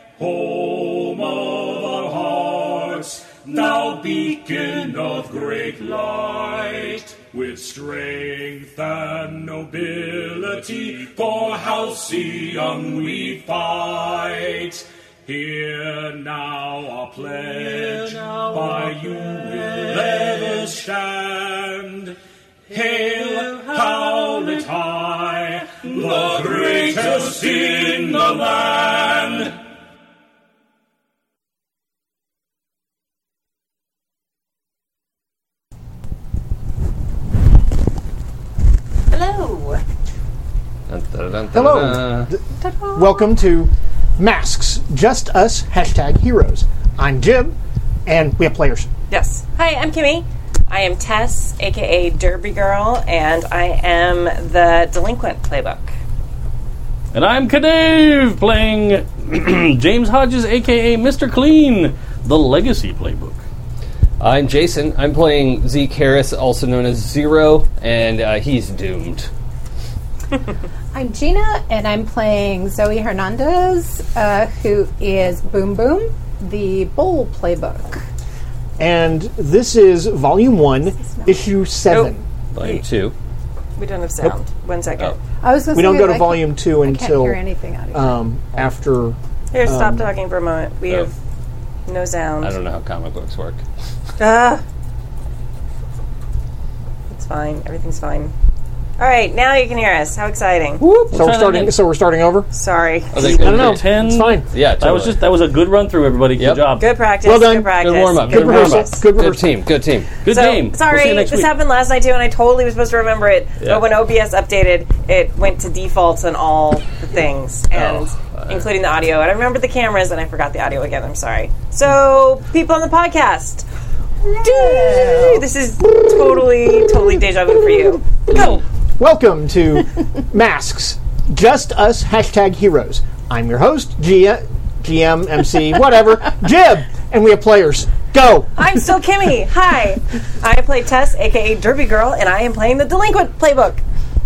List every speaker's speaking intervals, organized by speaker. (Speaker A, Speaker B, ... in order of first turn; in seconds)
Speaker A: 0.2-22.2, 22.7-29.6
Speaker B: 39.1-39.8, 49.1-55.9, 83.8-85.2, 89.5-91.1, 91.9-92.5, 94.2-94.6, 97.1-98.3, 99.0-100.8, 102.5-103.4, 106.8-109.0, 110.2-123.7, 124.3-128.6, 138.6-143.8
Speaker C: 40.9-42.3, 64.2-69.3, 82.5-83.1, 92.4-93.6, 103.1-103.9, 104.5-105.2, 106.3-106.7, 107.8-110.1, 117.7-118.7
Speaker D: 41.5-42.4, 42.9-48.9, 78.8-82.2, 85.7-87.4, 87.9-90.1, 100.8-102.5, 103.3-104.5, 107.2-109.6, 129.0-138.6
Speaker E: 42.6-43.3, 70.9-78.0, 81.0-81.4, 85.4-88.2, 124.5-125.4
Speaker F: 57.1-63.4, 101.0-101.8, 103.2-106.9, 110.2-111.5